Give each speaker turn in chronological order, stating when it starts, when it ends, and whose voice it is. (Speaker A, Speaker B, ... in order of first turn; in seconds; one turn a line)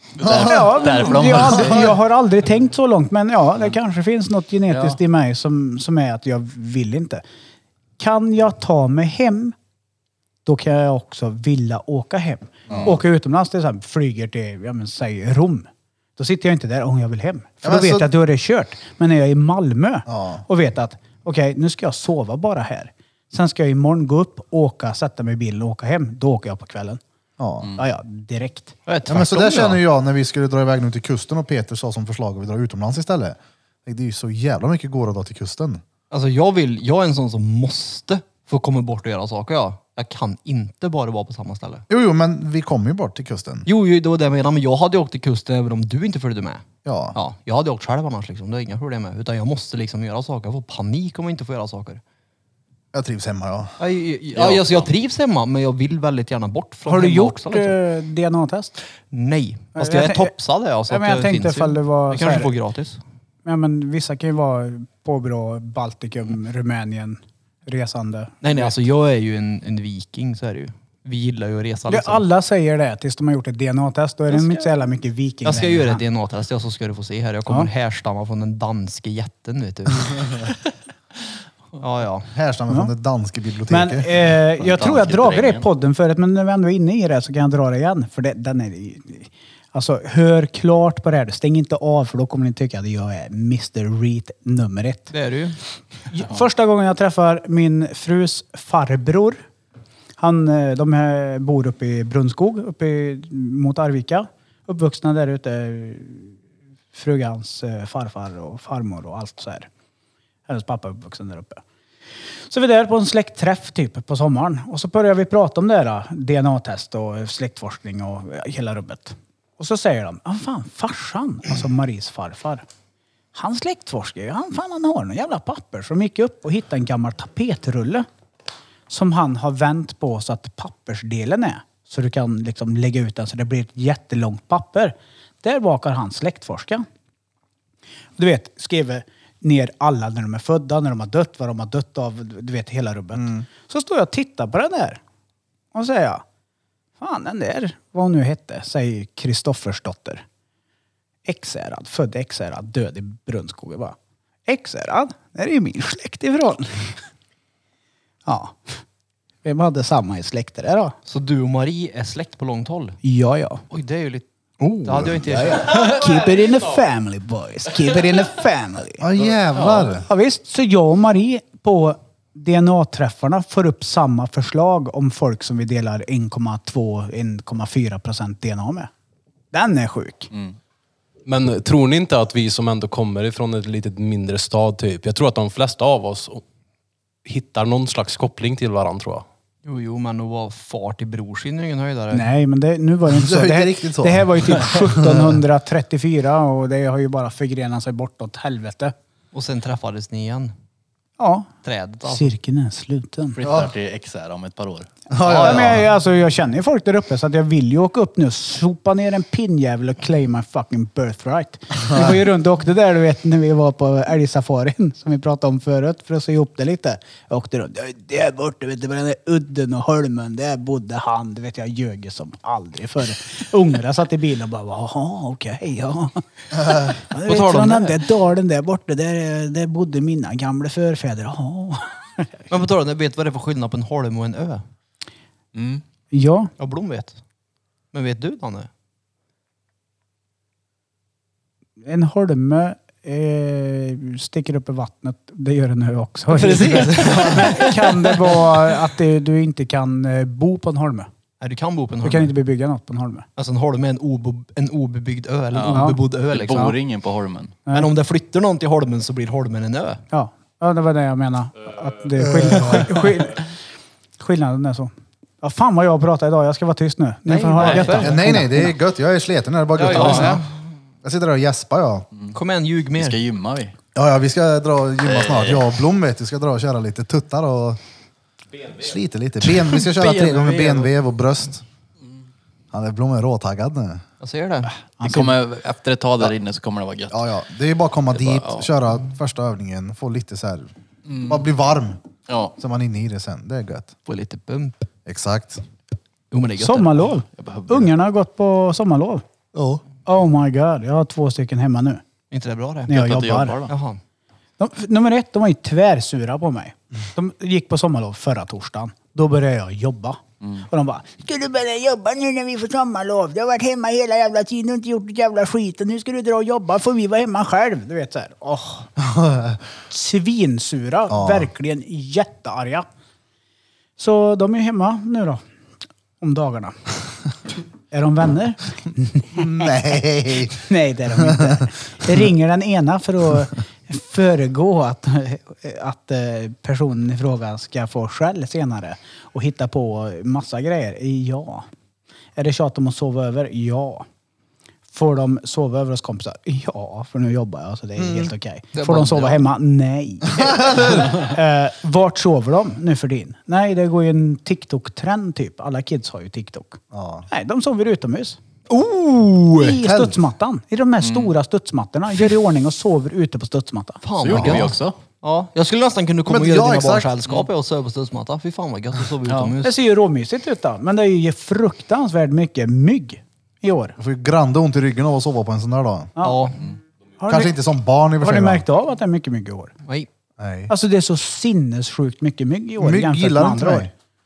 Speaker A: 0.2-1.9
Speaker B: 0.2-0.7
Speaker C: 0.3-7.2
Speaker B: 1.4-1.9
Speaker A: 4.7-5.0
Speaker C: 8.0-9.5
Speaker C: 10.4-27.0
Speaker A: 12.7-12.9
Speaker B: 17.6-18.1
Speaker B: 20.1-20.4
Speaker B: 27.4-27.7
Speaker C: 27.7-28.8
Speaker D: 28.9-29.8
Speaker B: 29.1-35.8
Speaker D: 36.1-41.8
Speaker B: 41.9-43.7
Speaker D: 43.7-52.0
Speaker B: 46.8-47.1
Speaker B: 52.9-53.7
Speaker D: 53.8-57.8
Speaker A: 54.3-54.9
Speaker C: 56.9-58.8
Speaker D: 59.1-63.0
Speaker C: 59.8-60.3
Speaker C: 60.9-62.5
Speaker C: 63.4-68.7
Speaker D: 68.4-72.2
Speaker C: 71.9-76.0
Speaker D: 74.3-74.6
Speaker D: 75.4-80.4
Speaker D: 81.8-82.3
Speaker B: 82.3-84.1
Speaker C: 83.7-95.1
Speaker A: 84.6-85.6
Speaker D: 95.1-95.6
Speaker C: 96.1-99.4
Speaker C: 100.2-106.4
Speaker C: 106.9-109.7
Speaker C: 110.5-111.6
Speaker C: 112.5-122.6
Speaker C: 123.3-128.1
Speaker C: 128.9-136.8
Speaker C: 138.2-145.0
Speaker B: 143.2-143.4
Speaker C: 145.7-146.2
Speaker C: 147.0-150.2
Speaker C: 151.2-153.9
Speaker C: 154.5-157.0
Speaker C: 158.2-158.8
Speaker C: 159.4-160.9
Speaker D: 161.1-163.0
Speaker C: 163.0-163.6
Speaker D: 163.7-164.2
Speaker C: 164.6-169.1
Speaker D: 164.8-165.9
Speaker B: 164.9-165.2
Speaker B: 169.0-170.1
Speaker A: 169.6-169.8
Speaker C: 169.9-178.9
Speaker C: 179.5-180.3
Speaker E: 181.2-186.4
Speaker E: 187.2-189.2
Speaker D: 189.6-192.3
Speaker C: 192.1-198.9
Speaker B: 193.1-195.3
Speaker D: 199.3-200.5
Speaker C: 201.2-201.5
Speaker D: 201.6-202.3
Speaker C: 202.1-203.4
Speaker A: 203.3-204.9
Speaker B: 203.4-203.7
Speaker B: 205.1-205.8
Speaker D: 205.2-205.7
Speaker C: 205.4-232.3
Speaker D: 227.3-228.0
Speaker D: 232.5-234.6
Speaker A: 235.5-235.8
Speaker C: 236.1-236.5
Speaker D: 236.6-237.2
Speaker D: 237.9-238.7
Speaker C: 241.8-251.1
Speaker D: 246.3-248.7
Speaker D: 251.4-252.3
Speaker C: 252.0-253.2
Speaker D: 253.4-256.8
Speaker A: 255.5-257.6
Speaker C: 255.7-256.0
Speaker D: 257.7-260.0
Speaker C: 260.1-263.5
Speaker B: 262.2-262.8
Speaker C: 264.2-268.8
Speaker D: 267.3-268.2
Speaker A: 267.6-267.9
Speaker B: 267.9-270.4
Speaker D: 269.8-270.5
Speaker C: 269.8-270.4
Speaker B: 271.0-272.1
Speaker D: 272.3-273.2
Speaker A: 273.0-273.7
Speaker B: 273.9-277.8
Speaker A: 275.0-275.7
Speaker B: 278.7-281.6
Speaker A: 280.4-280.9
Speaker B: 282.7-284.0
Speaker D: 284.2-284.7
Speaker C: 285.0-285.4
Speaker A: 285.0-287.2
Speaker B: 287.1-292.0
Speaker A: 288.1-288.6
Speaker A: 291.1-291.4
Speaker A: 292.3-292.5
Speaker B: 292.6-293.9
Speaker D: 294.1-294.9
Speaker B: 295.1-295.6
Speaker D: 296.3-297.0
Speaker C: 296.6-299.2
Speaker A: 297.4-297.9
Speaker B: 299.5-299.8
Speaker C: 300.1-302.0
Speaker D: 302.3-303.0
Speaker C: 302.9-303.6
Speaker A: 302.9-303.7
Speaker D: 303.7-304.0
Speaker C: 304.6-318.9
Speaker B: 319.0-319.6
Speaker C: 319.9-322.9
Speaker B: 321.1-321.5
Speaker C: 324.0-325.4
Speaker C: 326.2-326.8
Speaker C: 327.9-341.7
Speaker B: 329.3-331.6
Speaker C: 342.4-344.1
Speaker C: 344.9-358.4
Speaker B: 348.0-348.3
Speaker D: 348.7-349.4
Speaker B: 350.4-350.9
Speaker B: 356.9-357.3
Speaker D: 358.7-359.8
Speaker C: 359.6-364.0
Speaker B: 359.8-360.2
Speaker A: 361.0-361.3
Speaker D: 364.0-369.7
Speaker A: 364.2-364.9
Speaker B: 364.3-364.7
Speaker B: 366.3-367.1
Speaker A: 369.2-369.5
Speaker C: 369.6-373.9
Speaker B: 374.0-376.1
Speaker C: 376.2-376.5
Speaker D: 376.2-376.6
Speaker C: 377.2-377.5
Speaker B: 377.3-378.6
Speaker C: 378.2-379.7
Speaker B: 380.4-380.7
Speaker C: 380.7-383.9
Speaker B: 382.8-383.9